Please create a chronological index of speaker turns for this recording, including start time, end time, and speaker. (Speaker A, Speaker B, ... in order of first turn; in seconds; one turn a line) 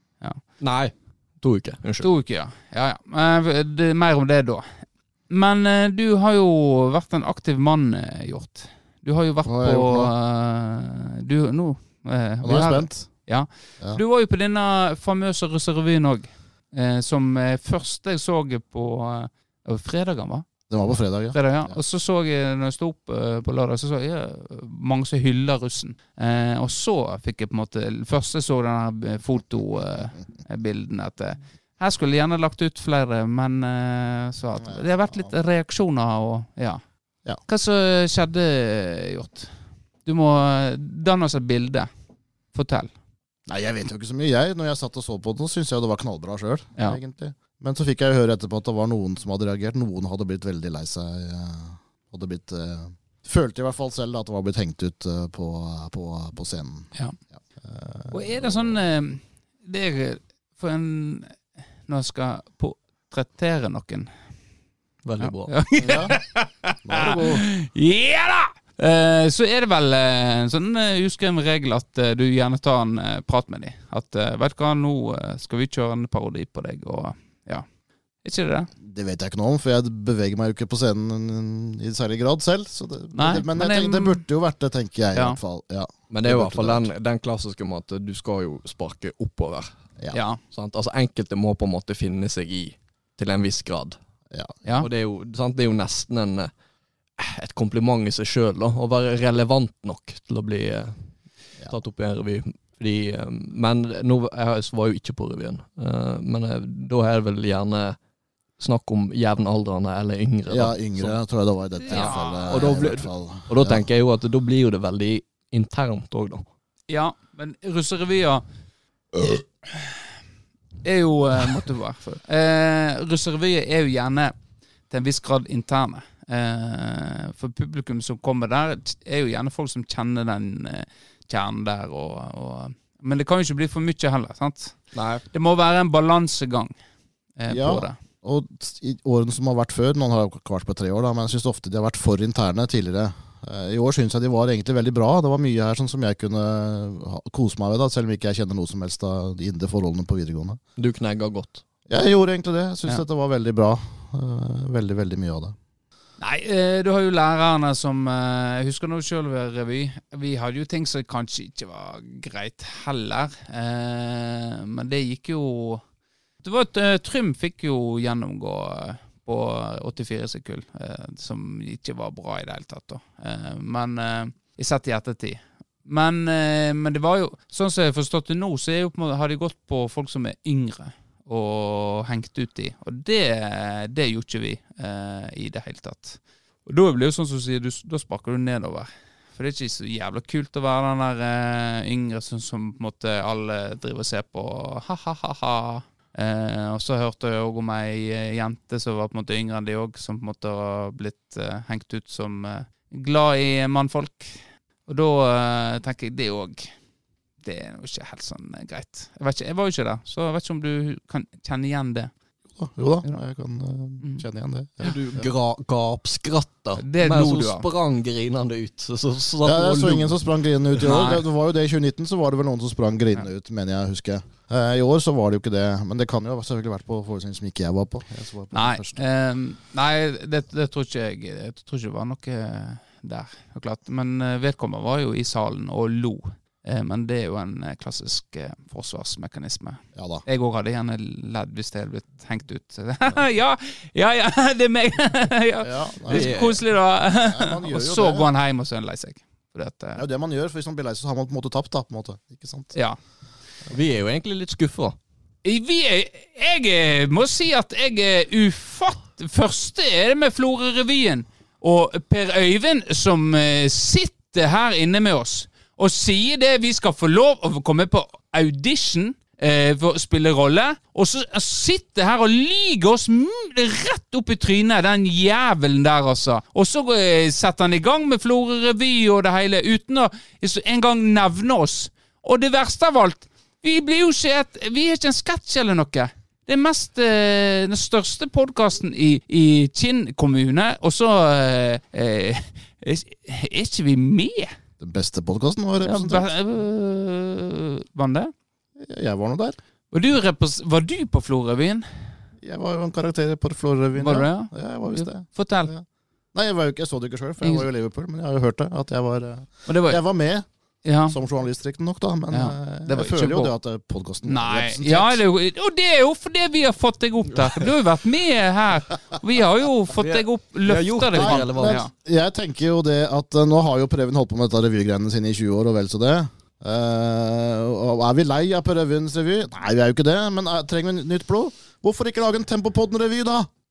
Speaker A: 0.6-2.1
Speaker B: 2.0-20.5
Speaker C: 9.4-10.1
Speaker C: 12.4-13.1
Speaker C: 20.7-21.8
Speaker B: 21.3-36.8
Speaker C: 34.6-35.3
Speaker B: 37.5-39.5
Speaker B: 40.0-41.9
Speaker B: 42.5-42.9
Speaker C: 43.5-56.9
Speaker C: 57.6-58.8
Speaker B: 58.1-64.1
Speaker A: 65.0-65.5
Speaker B: 65.2-77.7
Speaker C: 65.8-66.2
Speaker C: 66.8-67.5
Speaker B: 78.2-78.7
Speaker C: 78.8-86.9
Speaker B: 83.1-84.2
Speaker A: 86.1-89.7
Speaker B: 90.1-90.4
Speaker A: 90.5-94.0
Speaker C: 94.3-94.6
Speaker A: 94.8-96.5
Speaker A: 97.2-101.0
Speaker A: 101.7-108.0
Speaker A: 108.6-111.2
Speaker C: 110.5-113.9
Speaker B: 111.8-112.8
Speaker A: 111.9-116.5
Speaker B: 116.9-118.4
Speaker B: 119.2-120.0
Speaker B: 120.8-124.3
Speaker B: 124.9-134.8
Speaker A: 134.9-135.2
Speaker B: 135.3-136.7
Speaker B: 137.4-138.0
Speaker C: 137.5-150.6
Speaker A: 150.8-151.6
Speaker C: 151.9-155.6
Speaker B: 156.2-165.8
Speaker B: 166.4-206.7
Speaker B: 207.4-212.1
Speaker C: 212.6-215.3
Speaker A: 214.8-220.2
Speaker B: 216.8-217.7
Speaker C: 219.4-229.0
Speaker B: 220.8-221.2
Speaker B: 228.5-250.0
Speaker C: 239.9-240.2
Speaker C: 245.6-246.3
Speaker A: 246.1-246.6
Speaker C: 247.2-248.3
Speaker C: 250.0-252.7
Speaker A: 253.7-255.0
Speaker B: 255.4-294.5
Speaker C: 294.8-296.3
Speaker B: 295.8-298.3
Speaker C: 298.8-299.6
Speaker B: 299.9-301.9
Speaker C: 302.4-310.5
Speaker B: 303.9-305.7
Speaker B: 309.7-310.0
Speaker B: 310.9-311.2
Speaker C: 311.1-315.2
Speaker B: 312.3-313.5
Speaker B: 314.2-321.9
Speaker A: 320.0-321.8
Speaker C: 321.1-333.5